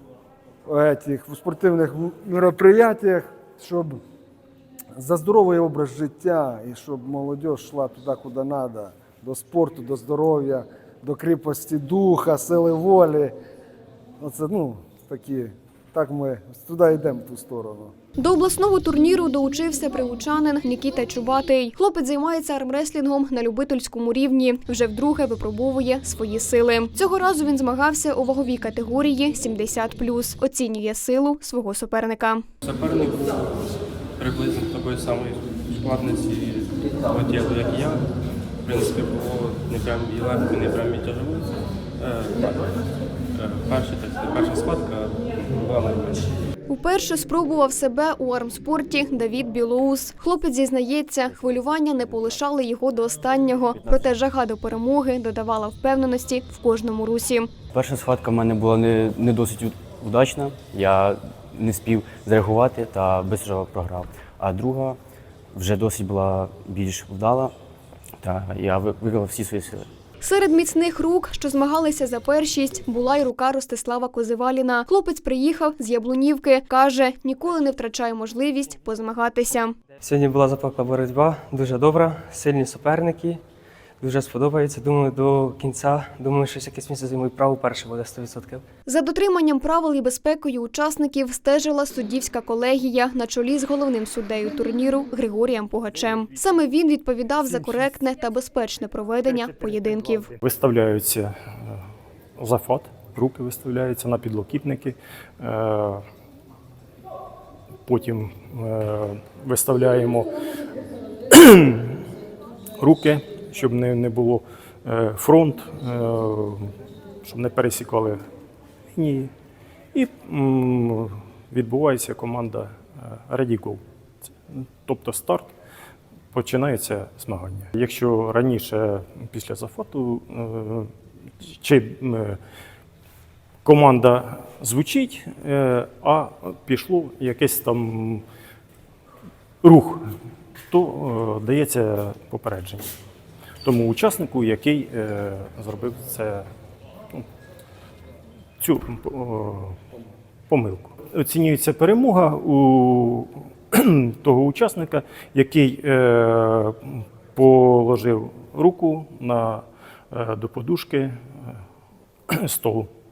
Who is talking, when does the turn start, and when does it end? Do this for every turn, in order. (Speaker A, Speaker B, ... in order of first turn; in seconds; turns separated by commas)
Speaker A: 0.7-4.0, Speaker A: 5.0-13.3, Speaker A: 14.2-17.9, Speaker B: 18.2-32.4, Speaker C: 32.6-33.4, Speaker C: 34.2-38.0, Speaker C: 38.6-42.6, Speaker C: 43.3-46.3, Speaker B: 46.7-57.5, Speaker D: 51.3-52.4, Speaker D: 53.8-54.1, Speaker D: 57.7-65.0, Speaker D: 65.5-67.5, Speaker D: 68.2-69.9, Speaker B: 70.2-79.7, Speaker E: 80.0-83.4, Speaker E: 84.0-88.6, Speaker B: 88.9-100.3, Speaker F: 100.4-101.8, Speaker F: 102.4-106.0, Speaker F: 107.8-110.3, Speaker F: 111.3-112.0, Speaker F: 112.8-116.7, Speaker F: 117.2-118.2, Speaker F: 118.9-119.3, Speaker F: 119.9-123.8, Speaker F: 124.5-125.5, Speaker F: 126.3-130.9, Speaker F: 131.4-132.4, Speaker F: 133.6-138.2, Speaker F: 139.6-140.0, Speaker F: 140.7-142.9, Speaker F: 143.6-146.5, Speaker F: 148.6-149.8, Speaker F: 150.5-161.1, Speaker F: 162.3-162.9